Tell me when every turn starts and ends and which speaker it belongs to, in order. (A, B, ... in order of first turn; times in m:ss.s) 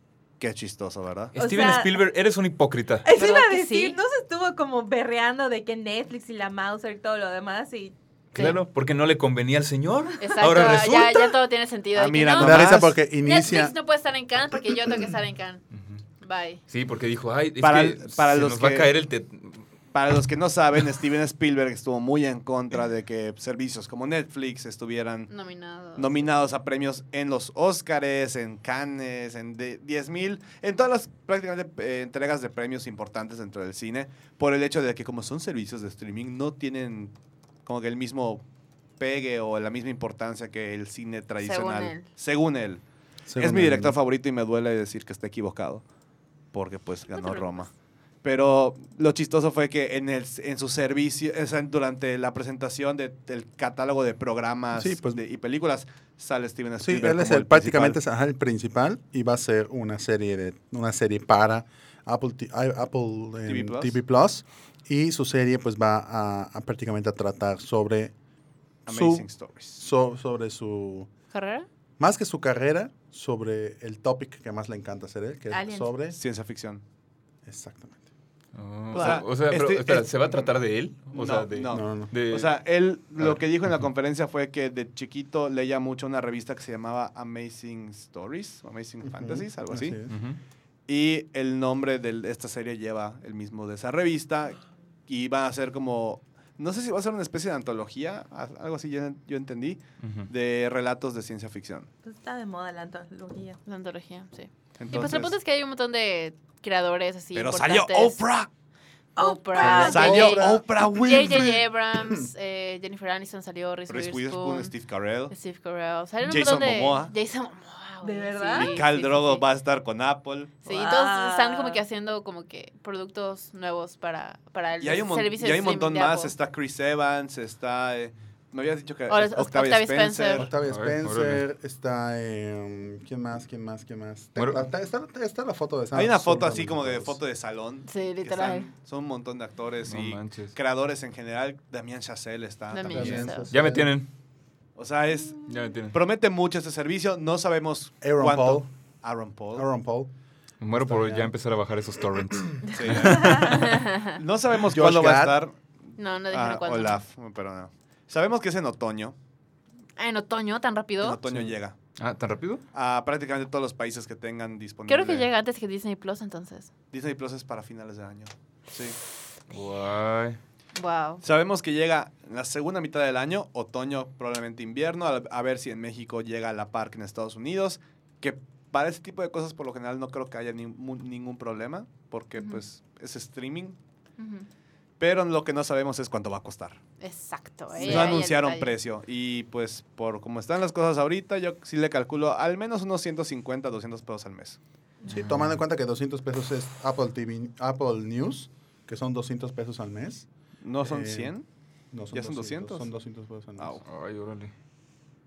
0:00.4-0:01.3 A
0:01.3-0:03.1 B
0:01.4-0:02.0 C
0:03.0-0:07.9 C
0:03.1-0:04.0 D
0:08.3-0:11.3 B
0:10.2-0:15.6 D
0:11.9-0:13.0 A
0:12.4-0:13.7 E
0:15.7-0:16.0 B
0:16.2-0:16.6 D
0:16.7-0:19.7 B
0:17.6-0:18.9 A
0:19.9-0:25.3 A
0:25.3-0:26.2 D
0:26.0-0:37.1 A
0:37.6-0:38.4 A
0:39.0-0:42.8 A
0:41.4-0:42.1 D
0:43.3-0:44.0 E
0:43.4-0:45.8 A
0:46.5-0:47.7 A
0:47.1-0:47.7 D
0:48.2-0:58.0 A
0:54.7-0:55.2 E
0:56.8-1:08.1 E
1:03.4-1:04.0 A
1:08.8-1:09.8 A
1:08.9-1:11.1 E
1:11.3-1:11.7 D
1:12.0-1:16.2 E
1:15.5-1:15.9 C
1:16.1-1:16.8 A
1:17.4-1:18.0 E
1:18.5-1:22.5 B
1:18.9-1:20.5 A
1:21.1-1:30.0 A
1:21.7-1:22.1 E
1:29.0-1:30.1 E
1:30.1-1:30.4 B
1:30.9-1:41.9 A
1:40.0-1:40.3 B
1:42.0-1:43.6 C
1:43.6-1:48.2 D
1:44.8-1:45.3 A
1:47.3-1:48.5 A
1:49.2-1:50.1 C
1:49.2-1:54.7 D
1:49.6-1:52.3 E
1:49.7-1:51.6 A
1:53.9-1:55.3 A
1:55.3-1:59.4 D
1:56.2-1:57.1 A
1:58.0-1:58.8 C
1:58.5-2:00.6 A
2:00.6-2:06.3 D
2:00.6-2:01.8 C
2:04.8-2:10.5 A
2:09.1-2:10.4 D
2:10.3-2:17.2 E
2:10.6-2:11.4 B
2:14.4-2:14.6 B
2:15.9-2:23.4 A
2:17.9-2:18.7 D
2:19.8-2:20.6 B
2:22.7-2:23.5 D
2:22.8-2:23.9 E
2:23.5-2:24.1 B
2:24.8-2:29.6 A
2:25.4-2:26.0 B
2:28.0-2:28.7 E
2:29.5-2:30.1 E
2:30.6-2:33.8 B
2:30.7-2:31.3 E
2:32.7-2:39.2 A
2:32.8-2:34.2 D
2:34.7-2:35.4 E
2:36.0-2:37.0 D
2:40.0-2:41.2 D
2:41.0-2:41.8 A
2:42.0-2:42.6 B
2:42.7-2:45.3 A
2:44.9-2:46.7 D
2:46.9-2:49.0 A
2:49.5-2:50.4 B
2:50.7-2:51.2 D
2:51.2-3:03.8 A
3:04.2-3:04.5 D
3:05.0-3:06.8 A
3:07.0-3:08.7 D
3:07.8-3:14.6 A
3:15.1-3:15.6 B
3:15.1-3:20.3 E
3:20.6-3:21.4 A
3:20.8-3:21.3 E
3:21.9-3:23.8 E
3:22.1-3:22.9 A
3:23.6-3:23.8 A
3:23.8-3:24.5 B